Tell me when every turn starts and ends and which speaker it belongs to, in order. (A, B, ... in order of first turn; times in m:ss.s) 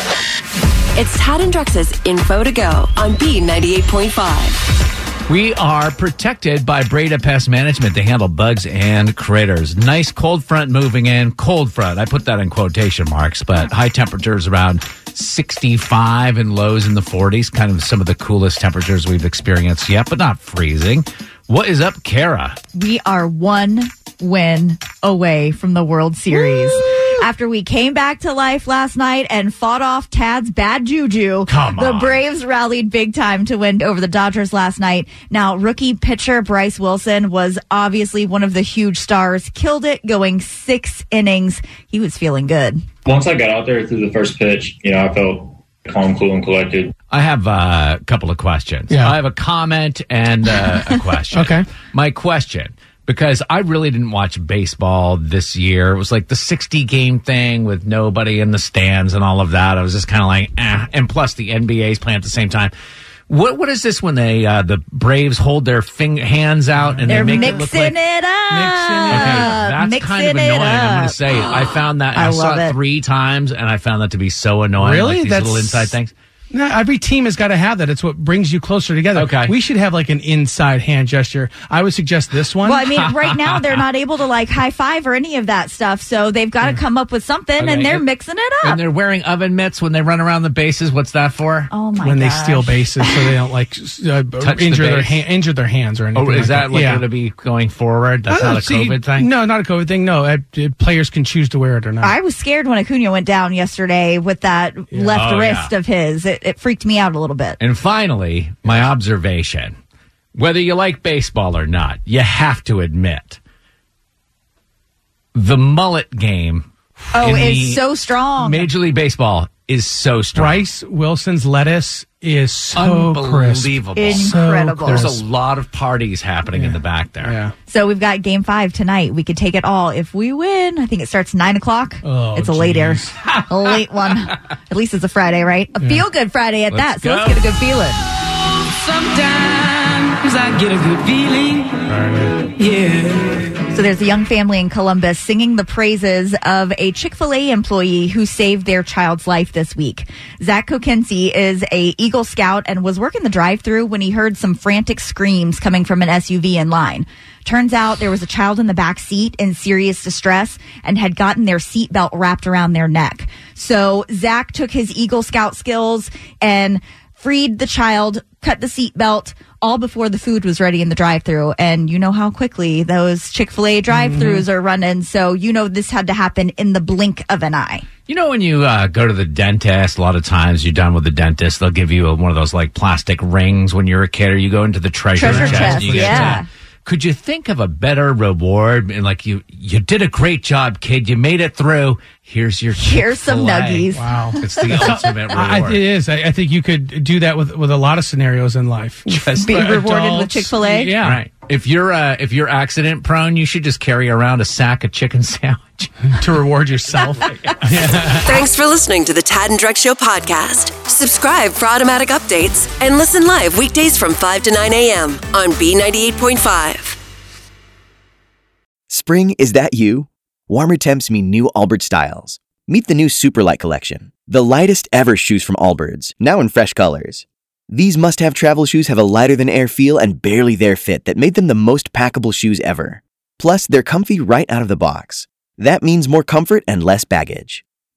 0:01.0-0:04.6 A
0:05.3-0:22.6 B
0:22.7-0:42.8 C
0:31.5-0:32.2 B
0:43.0-0:46.9 D
0:47.1-1:02.7 B
0:48.9-0:49.2 E
0:51.3-0:51.7 E
1:03.3-1:08.0 B
1:06.8-1:07.6 E
1:07.1-1:11.2 C
1:08.5-1:09.5 E
1:09.1-1:16.1 B
1:12.1-1:12.8 C
1:14.8-1:15.9 E
1:16.5-1:22.8 E
1:19.1-1:19.5 B
1:22.6-1:28.8 C
1:22.9-1:23.8 B
1:27.6-1:28.1 B
1:28.6-1:31.7 B
1:31.7-1:33.3 C
1:32.0-1:37.0 E
1:34.4-1:35.2 B
1:36.1-1:39.3 B
1:38.3-1:42.1 E
1:42.0-1:47.6 C
1:44.9-1:45.2 E
1:45.1-1:45.7 B
1:47.6-1:49.8 B
1:50.3-1:53.4 B
1:55.3-1:57.8 B
1:57.1-1:58.7 C
1:58.4-2:00.6 B
2:00.3-2:05.2 E
2:02.7-2:07.4 B
2:04.0-2:05.0 C
2:06.5-2:07.5 E
2:07.7-2:18.0 C
2:12.0-2:13.2 E
2:13.7-2:14.0 B
2:16.7-2:17.5 B
2:18.6-2:21.9 F
2:21.9-2:22.4 E
2:22.6-2:23.5 F
2:23.7-2:57.8 C
2:53.9-2:54.4 E
2:58.1-3:15.8 B
3:05.1-3:06.4 C
3:05.2-3:06.4 E
3:12.7-3:14.7 C
3:13.9-3:21.2 E
3:19.2-3:19.7 B
3:19.3-3:21.0 C
3:21.0-3:25.9 B
3:26.1-3:28.4 E
3:27.2-3:28.2 B
3:28.2-3:37.0 A
3:38.9-3:57.6 G